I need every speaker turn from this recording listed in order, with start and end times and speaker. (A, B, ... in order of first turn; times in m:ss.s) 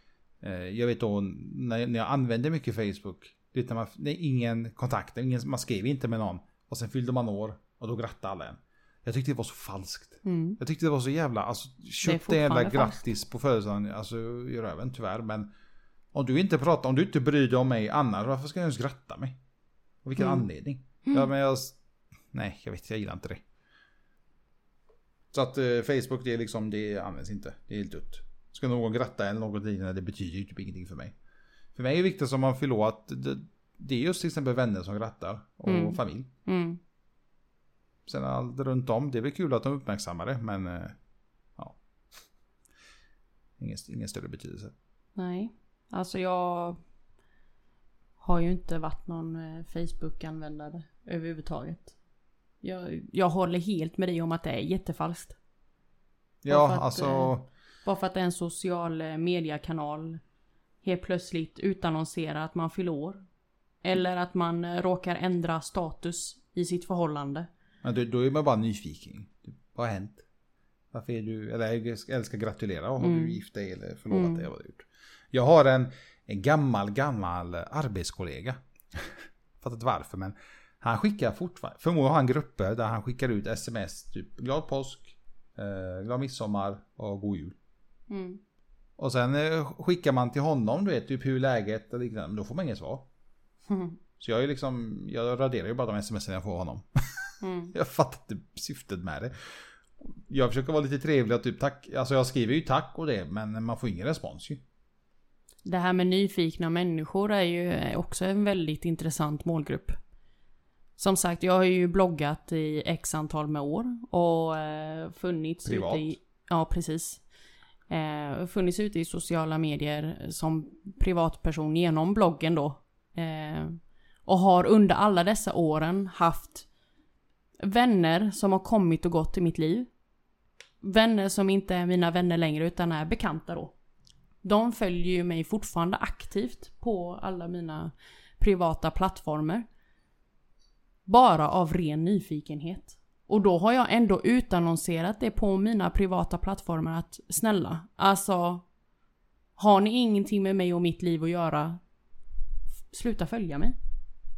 0:00.4-0:15.5 A
0:10.2-0:10.6 B
0:12.0-0:13.1 B
0:16.1-0:19.4 A
0:20.0-0:21.8 A
0:20.2-0:20.5 B
0:22.3-0:23.4 A
0:25.3-0:31.1 A
0:31.8-0:36.3 A
0:35.6-0:36.8 B
0:38.1-0:41.0 A
0:43.6-0:44.7 A
0:45.2-0:46.8 B
0:48.2-0:52.0 B
0:52.6-0:55.4 B
0:56.4-0:57.5 A
0:56.5-1:00.2 B
1:00.8-1:03.2 B
1:03.8-1:07.5 B
1:07.8-1:10.2 A
1:10.9-1:27.6 A
1:13.0-1:13.4 B
1:14.1-1:14.5 B
1:28.1-1:28.4 B
1:29.0-1:33.1 A
1:33.7-1:34.0 B
1:34.2-1:39.5 A
1:37.4-1:37.7 B
1:40.0-1:44.6 A
1:45.6-1:50.0 B
1:51.0-1:57.2 B
1:55.6-1:56.2 A
1:57.9-2:06.7 B
2:07.6-2:09.9 B
2:10.8-2:13.7 B
2:14.4-2:19.6 B
2:21.1-2:28.6 B
2:29.6-2:31.8 B
2:32.9-2:33.8 B